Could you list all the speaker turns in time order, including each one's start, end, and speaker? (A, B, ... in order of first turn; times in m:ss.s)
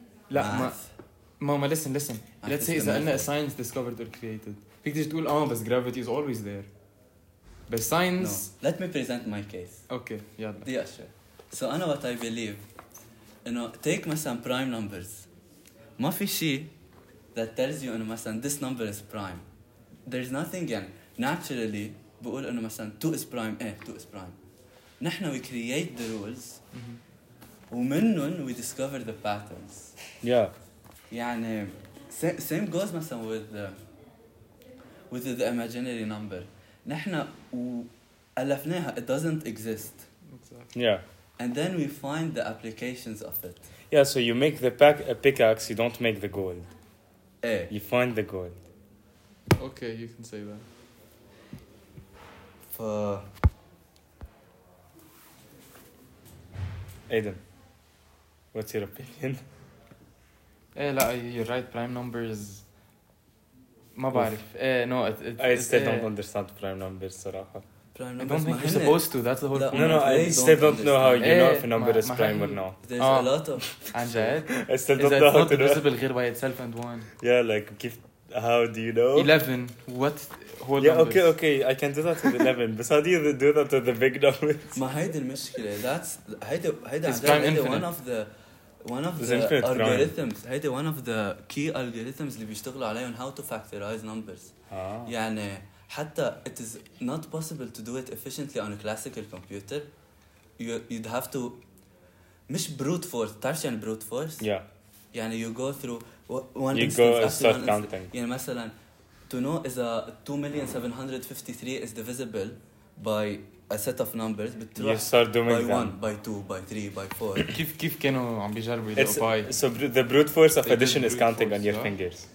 0:00.3-0:00.8 A
0:00.3-0:00.8 B
0:01.4-0:06.7 A
0:02.4-0:03.3 B
0:07.7-0:08.5 A
0:08.2-0:09.9 B
0:09.9-0:10.7 A
0:10.6-0:12.7 B
0:13.4-0:15.3 B
0:16.0-0:16.7 B
0:17.3-0:19.4 B
0:20.1-0:24.4 B
0:25.0-0:26.6 B
0:26.7-0:27.0 A
0:27.7-0:30.0 B
0:30.2-0:30.5 C
0:31.1-0:33.8 B
0:35.1-0:40.1 B
0:40.3-0:40.7 A
0:40.7-0:41.0 C
0:41.4-0:43.7 B
0:43.9-0:46.7 C
0:47.4-0:47.7 B
0:47.7-0:48.6 C
0:49.6-0:50.6 A
0:52.7-0:53.2 B
0:57.1-0:57.4 C
0:58.5-0:59.4 C
1:00.8-1:02.6 A
1:04.0-1:06.1 A
1:05.4-1:07.6 C
1:08.0-1:11.5 B
1:08.2-1:10.4 A
1:09.7-1:12.8 C
1:11.2-1:17.1 A
1:12.8-1:14.3 B
1:14.6-1:15.9 C
1:17.2-1:19.3 C
1:19.2-1:21.4 A
1:20.8-1:24.8 C
1:24.8-1:28.3 B
1:27.0-1:27.9 A
1:28.8-1:34.5 B
1:29.2-1:30.2 C
1:34.7-1:35.1 C
1:35.1-1:39.9 B
1:40.6-1:41.6 B
1:42.5-1:44.5 B
1:44.4-1:44.7 C
1:45.1-1:48.7 B
1:46.7-1:48.1 C
1:49.3-1:57.5 B
1:54.8-1:56.0 C
1:57.5-1:59.6 A
1:59.0-2:02.3 C
2:00.6-2:01.9 A